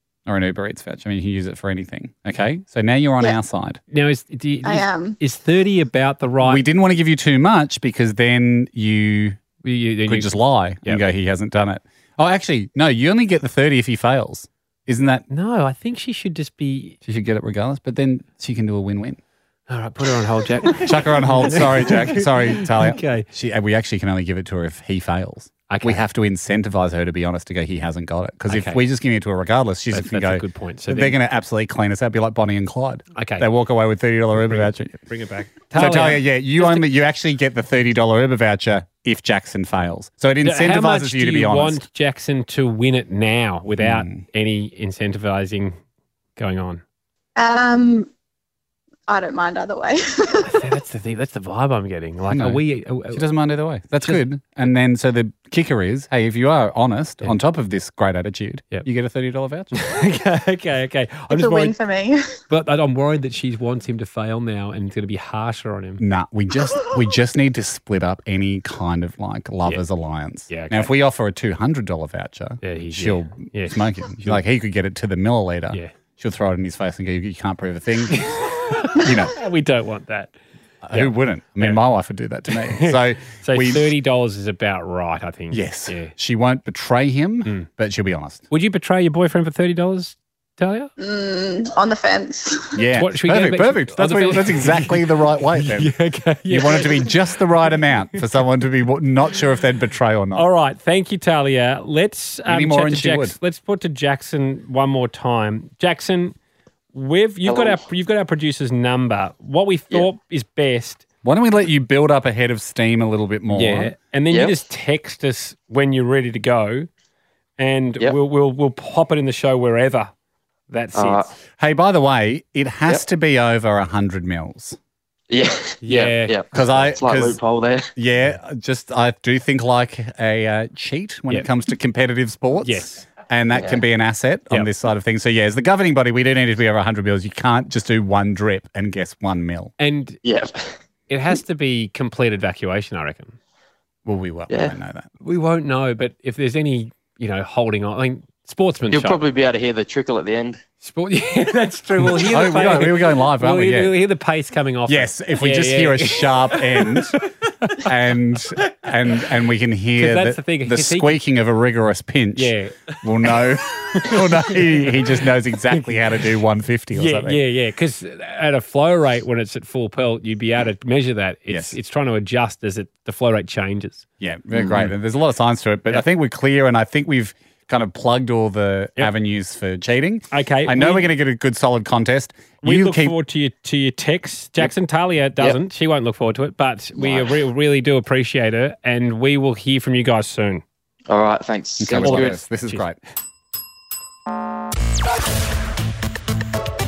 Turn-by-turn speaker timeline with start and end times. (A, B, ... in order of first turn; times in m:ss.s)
0:00.3-0:03.8 A
0:03.9-0:06.6 B
0:04.6-0:05.2 C
0:06.4-0:09.4 A
0:09.6-0:11.0 B
0:10.1-0:15.3 A
0:15.3-0:17.0 B
0:17.0-0:19.2 A
0:19.7-0:23.3 B
0:20.6-0:35.0 A
0:25.7-0:26.0 B
0:28.5-0:28.8 B
0:29.9-0:31.2 B
0:33.2-0:33.5 B
0:34.4-0:36.9 B
0:35.7-0:41.8 A
0:40.4-0:45.8 B
0:43.8-0:44.2 A
0:46.4-0:46.8 B
0:47.4-0:48.1 C
0:49.1-0:50.6 C
0:50.5-0:53.2 B
0:52.3-0:59.8 A
0:59.7-1:01.8 B
1:01.3-1:02.4 C
1:02.5-1:06.0 B
1:06.0-1:19.4 A
1:10.5-1:10.9 B
1:12.6-1:14.4 B
1:18.1-1:20.4 B
1:20.8-1:23.9 A
1:20.9-1:21.8 B
1:22.5-1:26.1 B
1:25.5-1:28.4 A
1:28.5-1:30.9 B
1:31.0-1:32.8 C
1:32.7-1:35.9 A
1:33.0-1:35.0 B
1:35.6-1:37.2 B
1:36.5-1:40.5 A
1:40.4-1:46.4 B
1:42.5-1:43.4 A
1:46.9-1:51.0 B
1:47.5-1:47.8 D
1:51.2-1:53.9 A
1:53.5-1:56.9 B
1:54.3-1:54.6 D
1:57.6-2:00.1 B
2:00.7-2:01.3 B
2:00.9-2:01.3 D
2:01.6-2:04.8 A
2:05.3-2:07.9 D
2:05.8-2:06.4 B
2:06.5-2:07.4 A
2:08.0-2:19.7 A
2:12.6-2:13.1 B
2:13.6-2:13.8 D
2:19.8-2:20.2 B
2:20.2-2:20.8 D
2:21.1-2:23.4 B
2:24.0-2:25.1 A
2:24.5-2:24.7 D
2:25.2-2:29.2 B
2:28.9-2:30.6 D
2:30.8-2:37.2 B
2:32.0-2:34.0 A
2:34.9-2:37.2 A
2:37.7-2:47.4 A
2:40.0-2:41.2 B
2:42.4-2:43.0 B
2:43.9-2:45.0 B
2:46.9-2:54.0 B
2:51.5-2:51.7 A
2:54.2-3:03.2 A
2:54.6-2:54.9 B
3:00.3-3:01.1 B
3:02.6-3:10.6 B
3:11.1-3:12.4 D
3:11.8-3:13.0 A
3:12.0-3:12.8 B